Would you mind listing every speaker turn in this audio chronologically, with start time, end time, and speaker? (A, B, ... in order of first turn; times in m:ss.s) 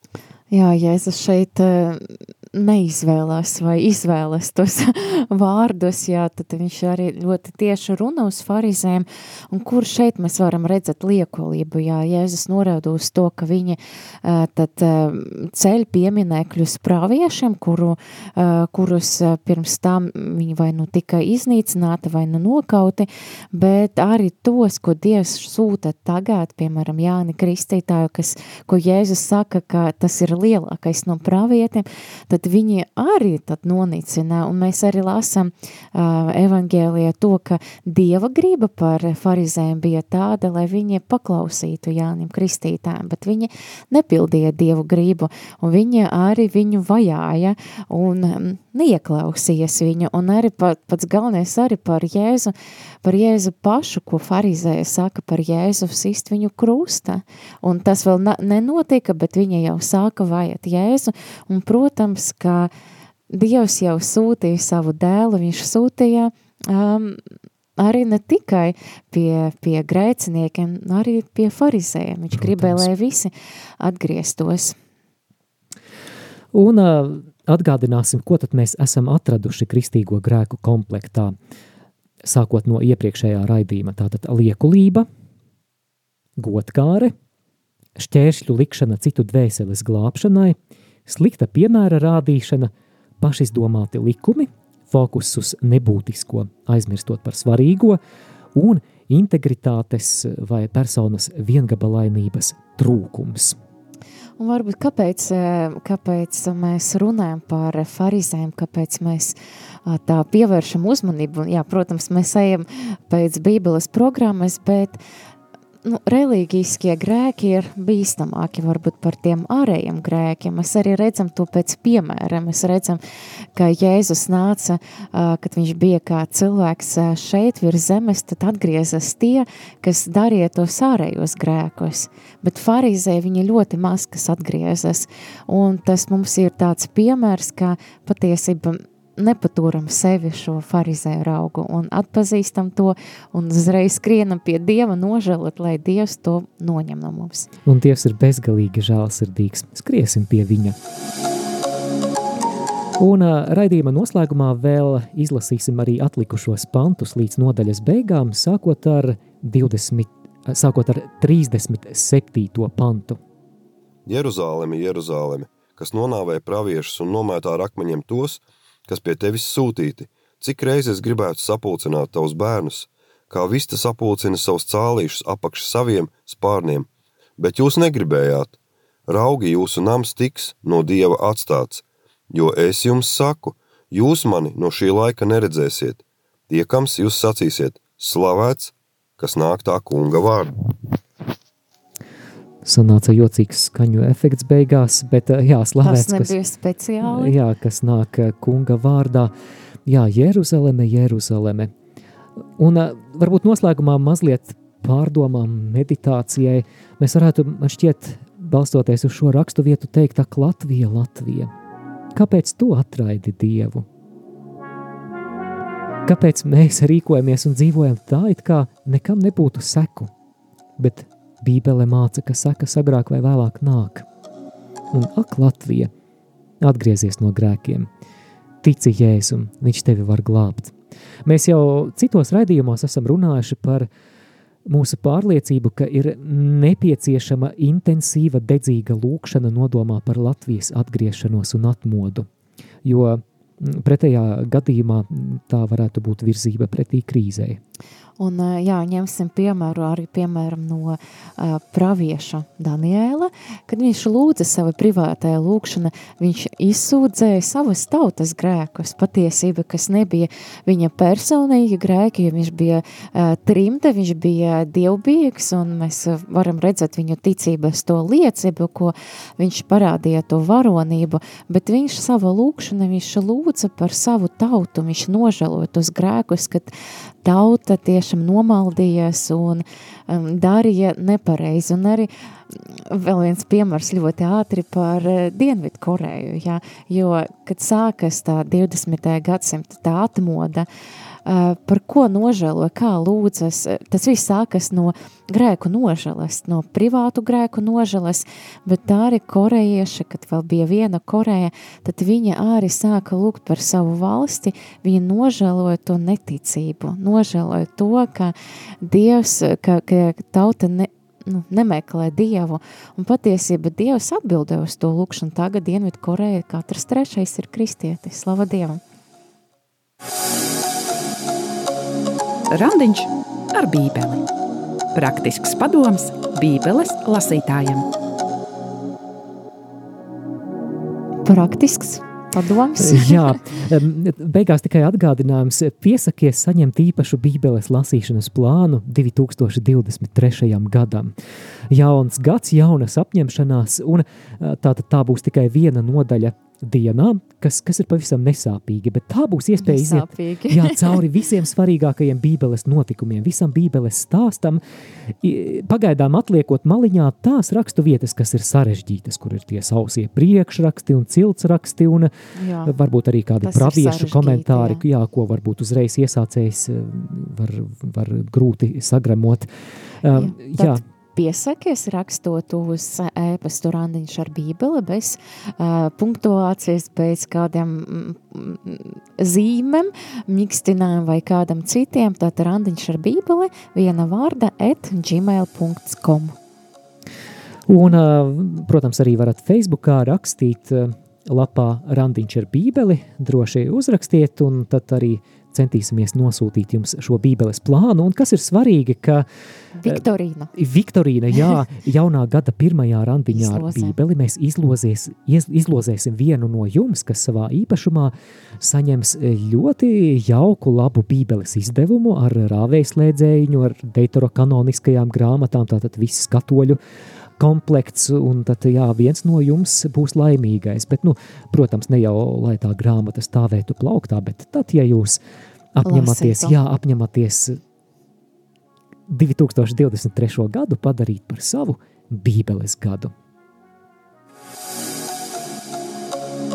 0:00.5-1:02.7 A
1:03.3-1:07.2 A
1:07.8-1:14.8 A
1:12.3-1:12.9 B
1:16.5-1:21.3 B
1:22.2-1:25.1 B
1:26.4-1:27.1 B
1:28.0-1:38.0 B
1:38.5-1:43.6 B
1:44.4-1:55.0 A
1:55.8-2:03.0 A
2:03.6-2:27.5 A
2:27.6-2:30.8 B
2:33.0-2:43.2 B
2:44.0-3:10.5 C
3:12.6-3:16.3 B
3:15.8-3:17.3 A
3:17.0-3:19.3 B
3:19.9-3:21.7 B
3:22.6-3:31.5 B
3:32.1-3:33.8 B
3:36.0-3:40.1 B
3:40.8-3:44.0 B
3:44.9-3:45.9 B
3:46.6-3:47.9 B
3:48.6-3:50.7 B
3:51.2-3:53.9 B
3:54.6-4:02.3 B
4:02.8-4:07.6 B
4:08.2-4:36.7 A
4:37.2-4:50.7 A
4:51.2-5:18.8 A
5:22.5-5:24.2 D
5:24.9-5:27.8 D
5:31.2-5:33.4 A
5:32.8-5:41.1 B
5:41.7-5:54.6 B
5:49.6-5:51.0 A
5:55.2-6:02.1 B
6:02.4-6:02.7 A
6:02.6-6:09.5 B
6:03.4-6:04.8 A
6:10.0-6:10.8 B
6:10.1-6:26.3 A
6:27.7-6:39.2 B
6:39.8-6:40.5 A
6:40.5-6:56.8 B
6:43.3-6:44.0 A
6:57.4-7:05.2 B
7:05.8-7:07.6 B
7:05.8-7:06.5 A
7:09.1-7:13.1 B